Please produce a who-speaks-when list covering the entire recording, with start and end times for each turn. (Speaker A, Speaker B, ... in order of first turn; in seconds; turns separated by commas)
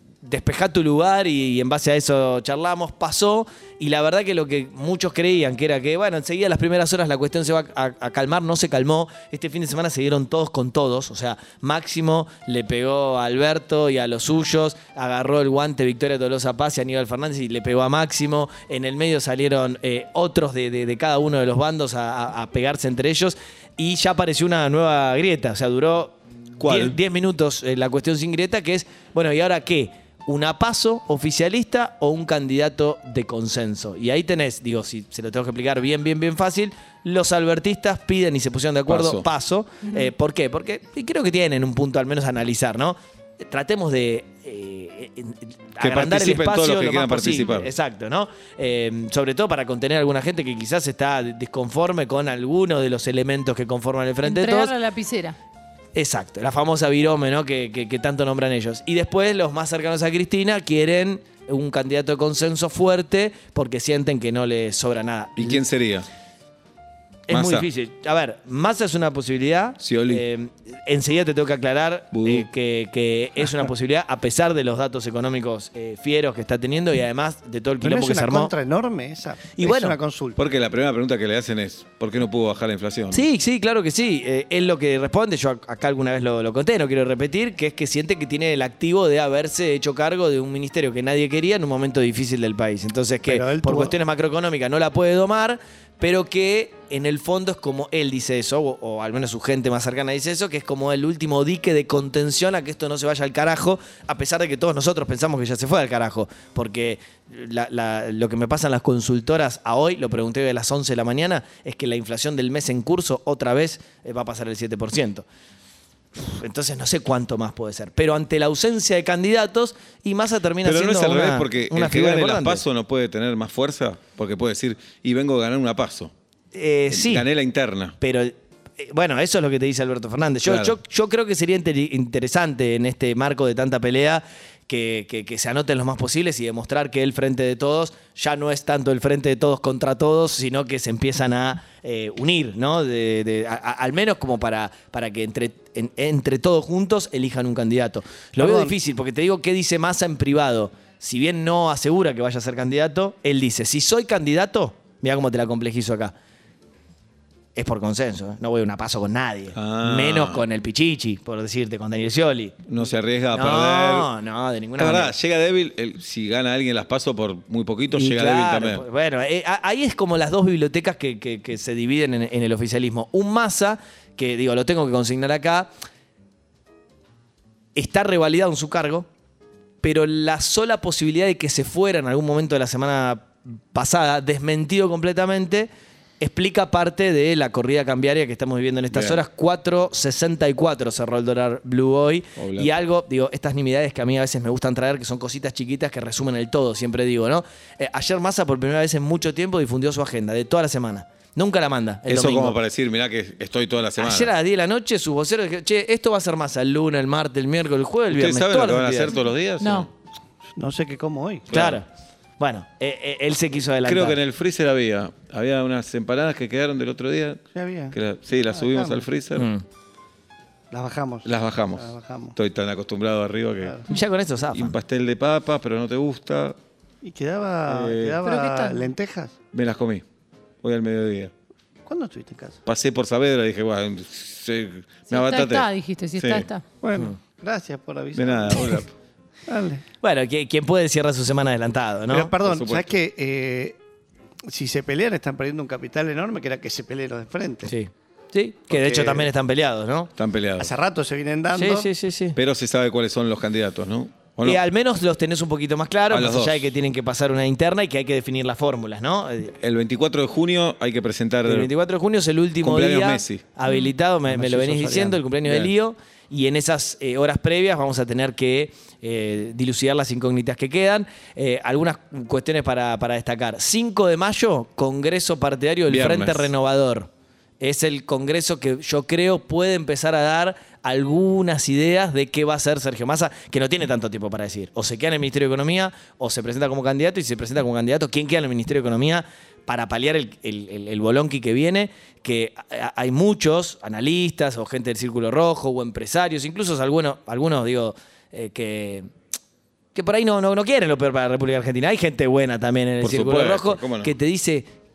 Speaker A: 0.2-54.8, Speaker B: 26.6-26.9, Speaker B: 38.9-39.2, Speaker B: 45.8-47.7, Speaker B: 54.2-55.4, Speaker A: 55.9-65.6, Speaker C: 65.4-66.1, Speaker A: 67.3-78.5, Speaker C: 67.3-67.7, Speaker C: 69.8-70.2, Speaker C: 72.1-72.4, Speaker D: 77.8-80.4, Speaker A: 79.5-80.0, Speaker C: 80.4-83.2, Speaker A: 83.1-115.2, Speaker D: 93.2-94.0, Speaker A: 116.2-122.6, Speaker C: 120.6-126.1, Speaker A: 126.5-127.3, Speaker C: 126.9-127.9, Speaker A: 128.0-156.1, Speaker C: 130.5-130.8, Speaker D: 148.4-148.7, Speaker A: 157.5-162.6, Speaker C: 159.5-160.4, Speaker C: 162.7-164.1, Speaker A: 163.3-165.2, Speaker C: 164.8-168.8, Speaker A: 167.9-175.7, Speaker A: 177.7-179.1, Speaker A: 179.8-185.7, Speaker A: 186.2-202.6, Speaker C: 192.4-192.7, Speaker C: 202.1-204.3, Speaker A: 204.0-209.2, Speaker C: 208.1-209.9, Speaker B: 209.6-209.9, Speaker D: 210.6-211.5, Speaker A: 211.5-211.8, Speaker A: 212.4-214.2, Speaker C: 213.8-217.4, Speaker D: 217.5-218.0, Speaker C: 218.0-219.5, Speaker D: 218.5-219.1, Speaker A: 219.3-219.6, Speaker D: 220.7-222.3, Speaker C: 221.2-221.8, Speaker C: 222.4-223.7, Speaker D: 223.6-223.9, Speaker A: 223.9-224.8, Speaker C: 224.5-226.6, Speaker D: 227.0-229.3, Speaker C: 227.7-228.6, Speaker C: 229.5-230.0, Speaker C: 230.6-231.3, Speaker D: 231.8-232.6, Speaker C: 232.7-236.6, Speaker B: 235.1-236.5, Speaker D: 236.8-238.8, Speaker C: 238.2-238.9, Speaker D: 239.5-239.8, Speaker A: 240.0-242.3, Speaker D: 242.1-243.8, Speaker D: 244.5-247.7, Speaker A: 247.6-250.1, Speaker D: 248.8-249.2, Speaker C: 250.2-250.6, Speaker D: 250.6-251.9, Speaker A: 251.5-252.4, Speaker C: 252.4-254.6, Speaker A: 254.4-259.6, Speaker C: 256.1-256.5, Speaker C: 259.6-261.6, Speaker A: 261.4-277.1, Speaker C: 262.6-263.5, Speaker D: 264.3-265.2, Speaker B: 275.9-276.5, Speaker A: 277.6-299.1, Speaker A: 299.9-304.7, Speaker C: 303.0-304.1